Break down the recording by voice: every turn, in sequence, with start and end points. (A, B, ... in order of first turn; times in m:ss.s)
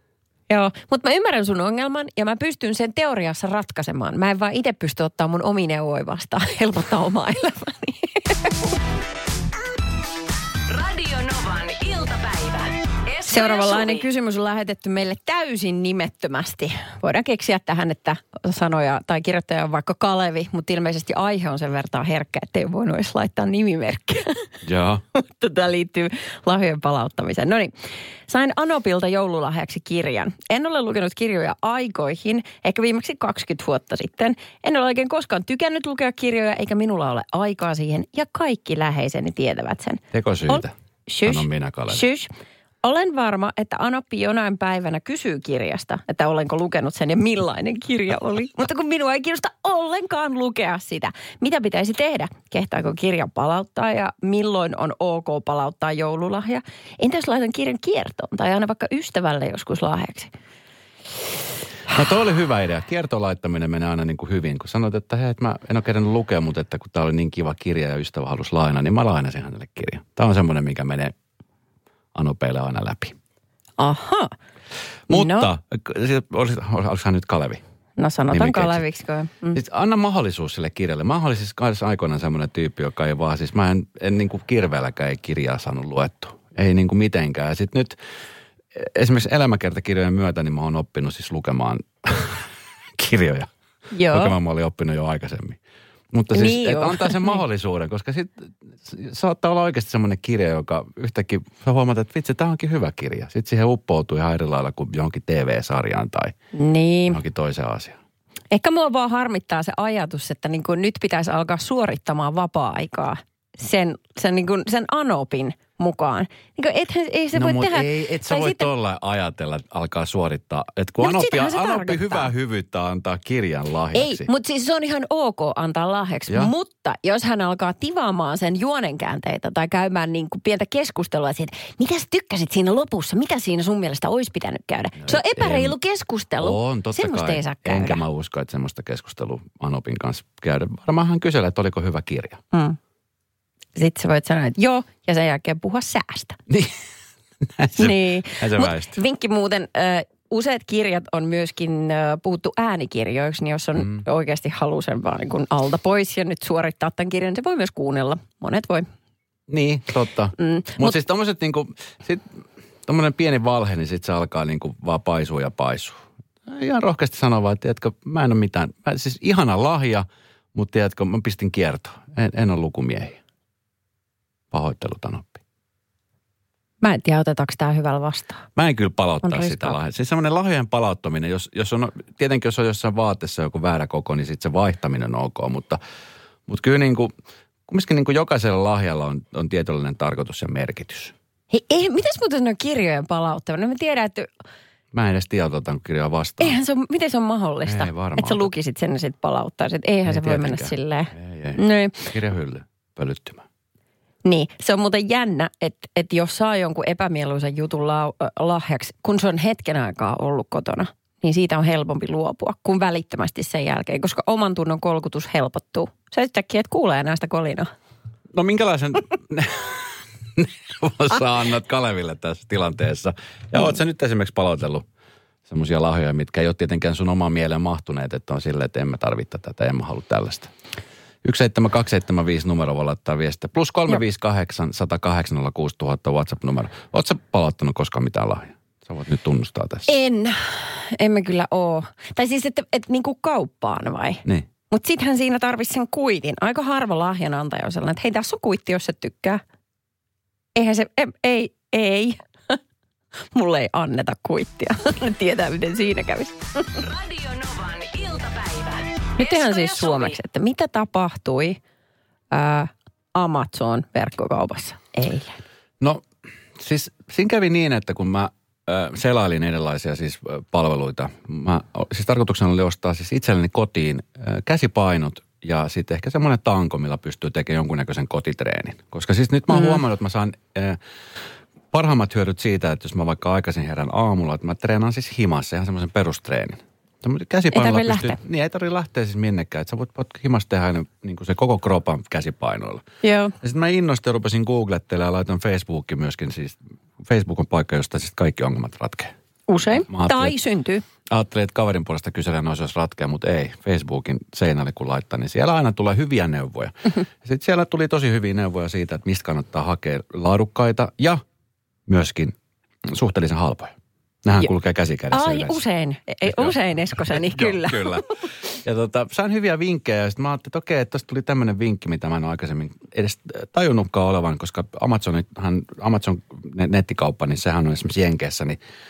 0:00.5-0:08.6 A
0:10.7-0:14.0 B
0:13.3-0:24.5 A
0:24.6-0:25.0 C
0:25.2-0:42.3 A
0:40.1-0:42.0 C
0:42.8-1:00.3 A
1:01.9-1:11.1 C
1:12.2-1:13.2 C
1:13.8-1:14.3 A
1:15.1-1:17.6 C
1:15.1-1:15.5 A
1:18.0-1:19.6 A
1:18.3-1:18.8 C
1:19.5-1:28.0 C
1:28.7-1:33.5 C
1:33.9-1:34.4 A
1:34.1-1:35.6 C
1:36.1-1:46.4 C
1:36.3-1:37.4 A
1:46.5-1:47.2 A
1:47.1-1:48.0 C
1:48.5-1:58.7 A
1:57.3-2:04.3 C
2:01.0-2:02.3 A
2:03.9-2:18.0 A
2:15.0-2:15.8 C
2:16.4-2:22.4 C
2:22.5-2:22.8 A
2:23.8-2:26.4 A
2:26.5-2:26.8 C
2:27.4-2:29.0 C
2:27.8-2:38.9 A
2:33.8-2:34.0 C
2:39.5-2:53.2 C
2:40.4-2:41.0 A
2:54.5-2:55.4 C
2:56.8-2:58.5 A
2:58.6-3:05.8 C
2:59.2-2:59.8 A
3:06.5-3:07.1 C
3:07.7-3:11.1 C
3:11.5-3:14.3 A
3:14.9-3:16.6 C
3:16.4-3:22.1 A
3:17.7-3:18.5 C
3:20.1-3:23.4 C
3:24.2-3:37.7 A
3:38.3-3:44.9 C
3:45.5-3:50.5 C
3:51.2-3:59.9 C
3:59.9-4:09.4 A
4:10.6-4:12.6 A
4:13.4-4:16.8 A
4:16.8-4:20.2 B
4:19.2-4:21.6 A
4:22.3-4:25.4 A
4:26.6-4:40.8 C
4:39.5-4:39.8 A
4:41.7-4:52.8 C
4:47.5-4:48.2 A
4:53.0-4:53.4 A
4:53.4-4:59.1 C
4:59.5-5:00.8 A
4:59.7-5:00.4 C
5:01.1-5:11.2 C
5:11.9-5:15.6 C
5:15.1-5:18.0 A
5:16.2-5:28.6 C